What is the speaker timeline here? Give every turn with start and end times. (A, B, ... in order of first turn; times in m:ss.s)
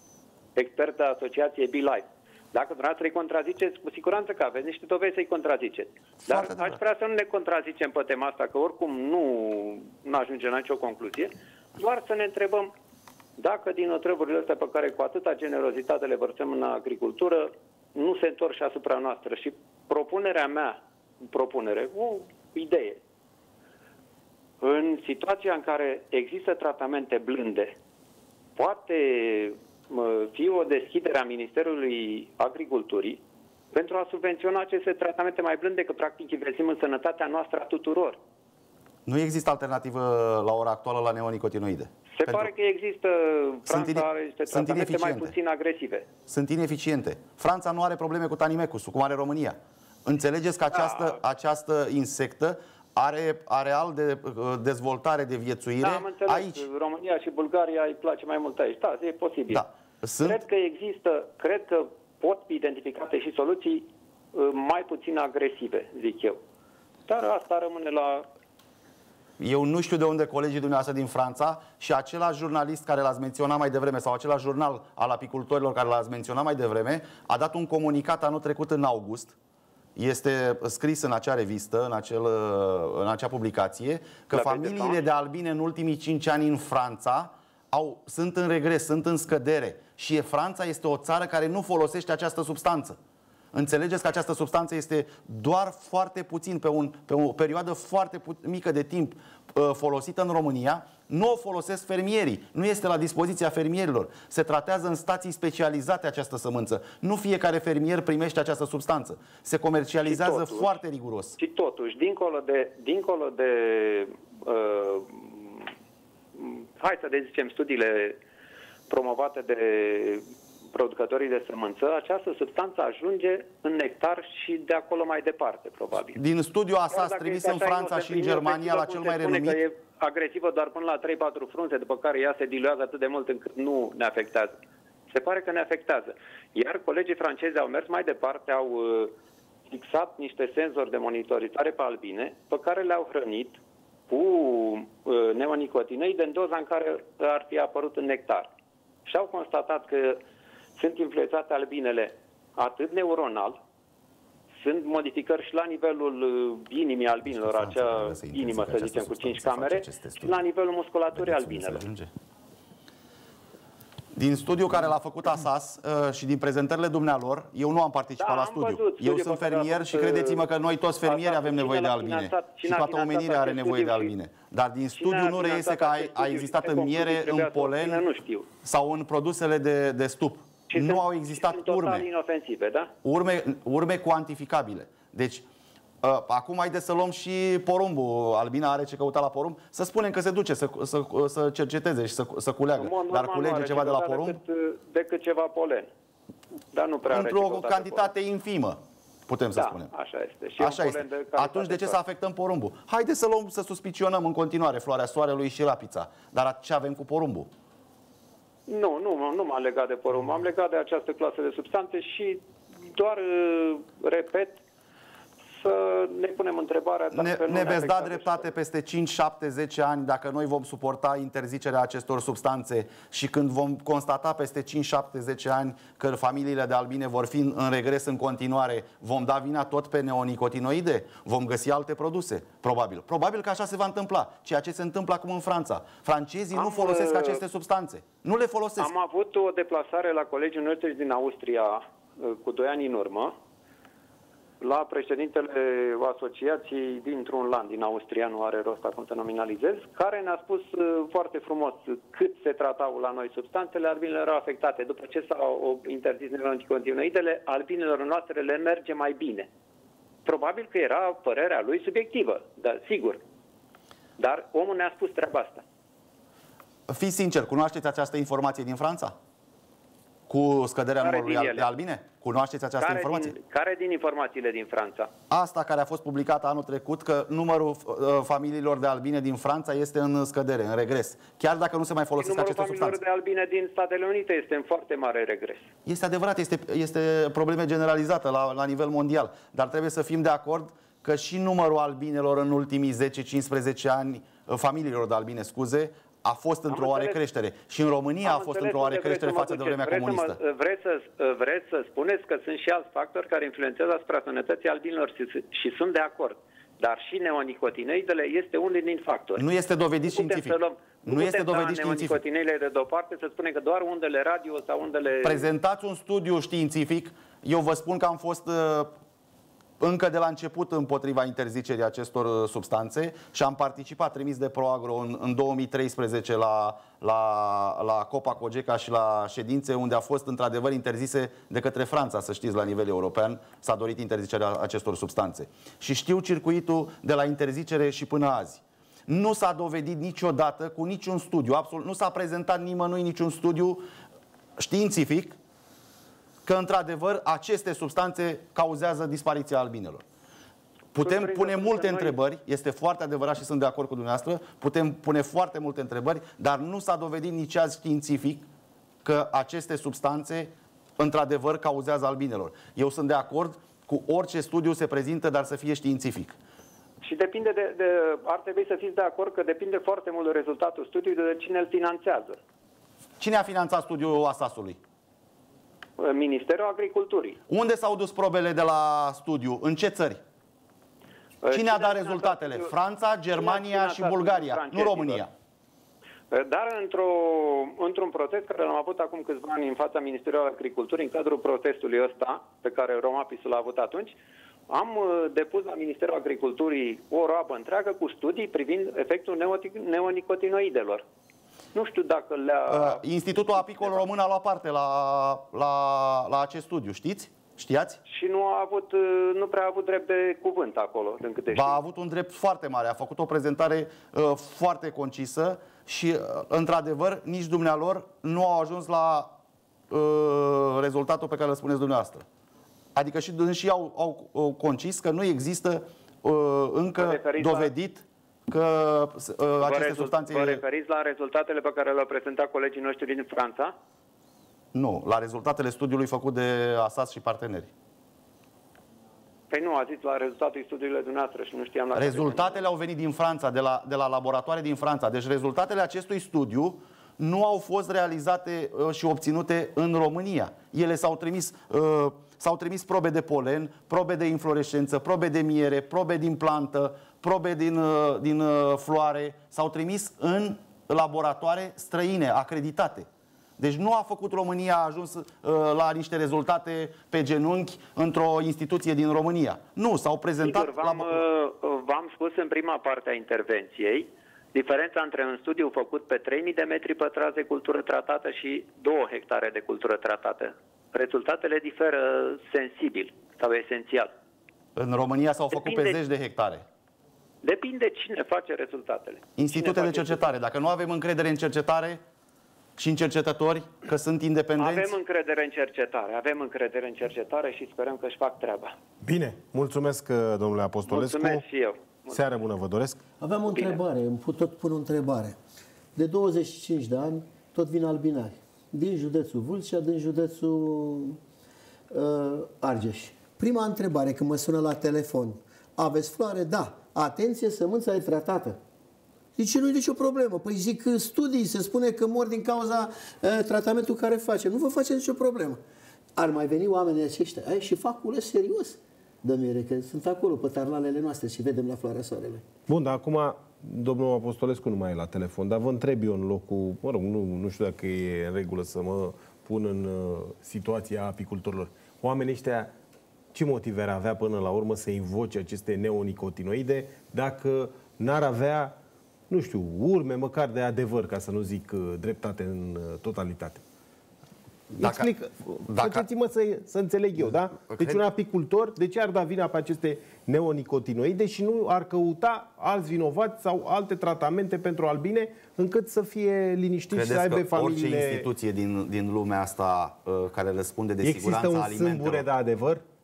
0:00.6-0:12.7 A
0:06.3-0:06.8 B
0:13.4-0:23.0 A
0:24.6-0:27.7 A
0:28.6-0:33.2 A
0:33.7-0:38.2 A
0:39.0-0:42.5 B
0:42.2-0:46.0 A
0:43.7-0:45.3 B
0:46.3-0:56.6 B
0:50.7-0:51.2 A
0:55.8-0:59.6 A
0:59.5-1:00.4 B
1:00.2-1:06.4 A
1:07.1-1:08.3 A
1:09.4-1:19.3 B
1:20.0-1:33.0 B
1:24.3-1:25.0 A
1:33.5-1:51.4 B
1:50.0-1:50.7 A
1:51.4-1:55.7 A
1:56.3-1:58.2 A
1:58.9-2:06.2 A
2:06.1-2:09.6 B
2:06.9-2:14.5 A
2:15.1-2:19.1 A
2:19.7-2:28.5 A
2:29.0-2:30.2 A
2:30.8-2:33.6 A
2:34.5-2:41.8 A
2:37.2-2:40.4 B
2:41.2-2:42.1 B
2:44.1-2:58.0 B
2:48.2-2:50.5 A
2:51.0-2:54.1 A
2:55.0-2:58.5 A
2:58.6-3:02.1 B
3:00.7-3:02.9 A
3:03.0-3:05.4 B
3:06.0-3:14.4 B
3:12.8-3:15.9 A
3:16.7-3:18.1 A
3:17.1-3:19.9 B
3:19.6-3:22.0 A
3:20.6-3:27.5 B
3:28.7-3:34.6 A
3:35.6-3:38.5 A
3:37.1-3:58.9 B
3:56.5-3:57.4 A
3:58.8-4:03.3 A
4:04.6-4:19.5 A
4:20.2-4:23.2 A
4:24.2-4:25.6 A
4:26.9-4:29.1 B
4:30.3-4:33.3 B
4:31.0-4:31.7 A
4:32.8-4:35.1 A
4:35.3-4:43.0 B
4:42.2-4:45.7 A
4:45.8-5:00.4 B
4:56.7-4:57.2 A
4:58.2-5:09.4 A
5:09.4-5:12.2 B
5:10.0-5:15.5 A
5:15.2-5:18.9 B
5:19.8-5:43.8 B
5:44.6-5:45.4 B
5:46.4-5:50.0 B
5:50.9-5:58.5 B
5:51.0-5:52.1 A
5:59.0-6:06.4 B
6:07.0-6:12.4 A
6:13.2-6:14.8 B
6:16.0-6:17.4 A
6:17.5-6:20.2 B
6:21.4-6:22.7 A
6:21.5-6:25.3 B
6:23.3-6:25.2 A
6:26.3-6:34.2 A
6:34.7-6:41.0 A
6:41.7-6:44.0 A
6:42.7-6:48.0 B
6:48.0-6:51.8 A
6:51.5-6:59.3 B
6:59.9-7:02.2 B
7:02.9-7:10.6 B
7:07.0-7:07.7 A
7:09.6-7:13.7 A
7:14.7-7:17.7 B
7:19.5-7:22.6 A
7:21.9-7:43.0 B
7:43.6-7:51.2 B
7:50.4-8:04.1 A
8:04.8-8:06.6 B
8:05.5-8:06.0 A
8:07.4-8:10.2 A
8:09.4-8:12.0 B
8:12.8-8:14.9 B
8:14.6-8:18.7 A
8:19.0-8:21.4 C
8:20.9-8:22.2 A
8:22.1-8:23.0 C
8:23.2-8:25.4 D
8:23.5-8:23.8 A
8:26.0-8:31.2 D
8:31.9-8:38.6 D
8:39.4-8:45.6 D
8:46.2-8:52.4 D
8:52.7-9:02.7 C
9:03.3-9:08.7 C
9:09.3-9:13.6 C
9:14.7-9:28.3 C
9:14.8-9:15.1 B
9:15.7-9:16.0 B
9:17.7-9:18.0 B
9:26.9-9:32.2 B
9:31.0-9:32.8 C